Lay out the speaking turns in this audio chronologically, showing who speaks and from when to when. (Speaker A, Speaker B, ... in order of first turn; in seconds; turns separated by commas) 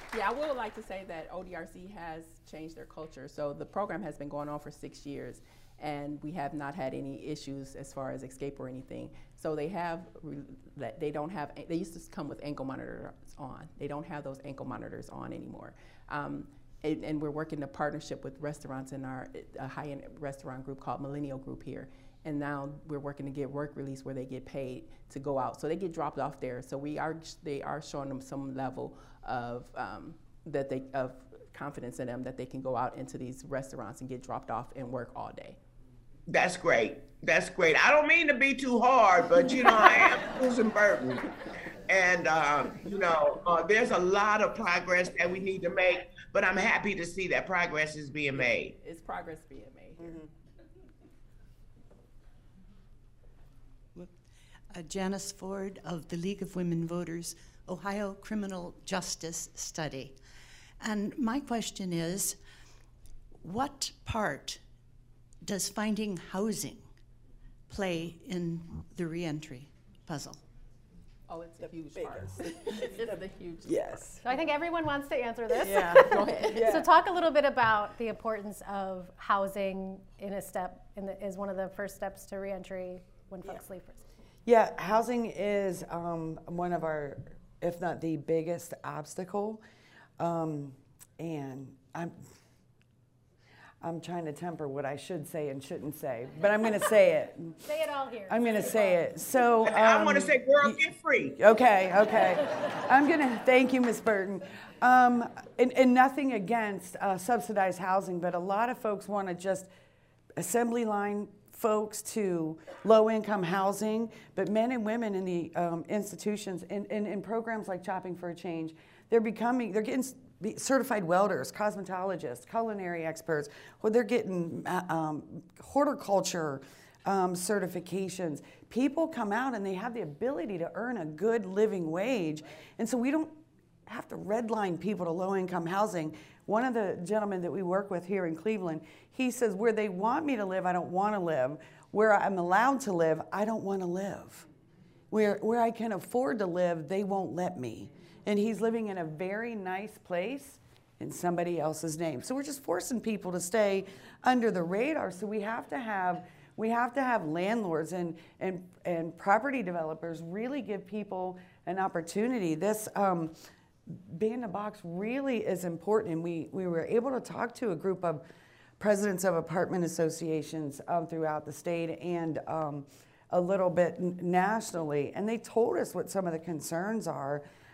Speaker A: 0.1-35.6, Speaker B: 36.3-41.3, Speaker B: 41.9-48.7, Speaker A: 48.8-50.2, Speaker C: 54.7-60.1, Speaker C: 60.8-62.4, Speaker C: 63.4-64.6, Speaker C: 65.4-66.9, Speaker C: 67.7-70.4, Speaker A: 71.3-73.8, Speaker D: 72.1-72.4, Speaker D: 73.6-74.2, Speaker E: 74.2-84.0, Speaker D: 75.7-76.9, Speaker A: 75.7-76.7, Speaker D: 84.5-89.6, Speaker D: 90.2-92.2, Speaker D: 93.8-97.6, Speaker E: 97.6-99.0, Speaker D: 98.3-109.7, Speaker B: 99.7-101.3, Speaker D: 110.4-144.5, Speaker D: 145.1-163.3, Speaker D: 163.9-168.2, Speaker D: 168.8-177.4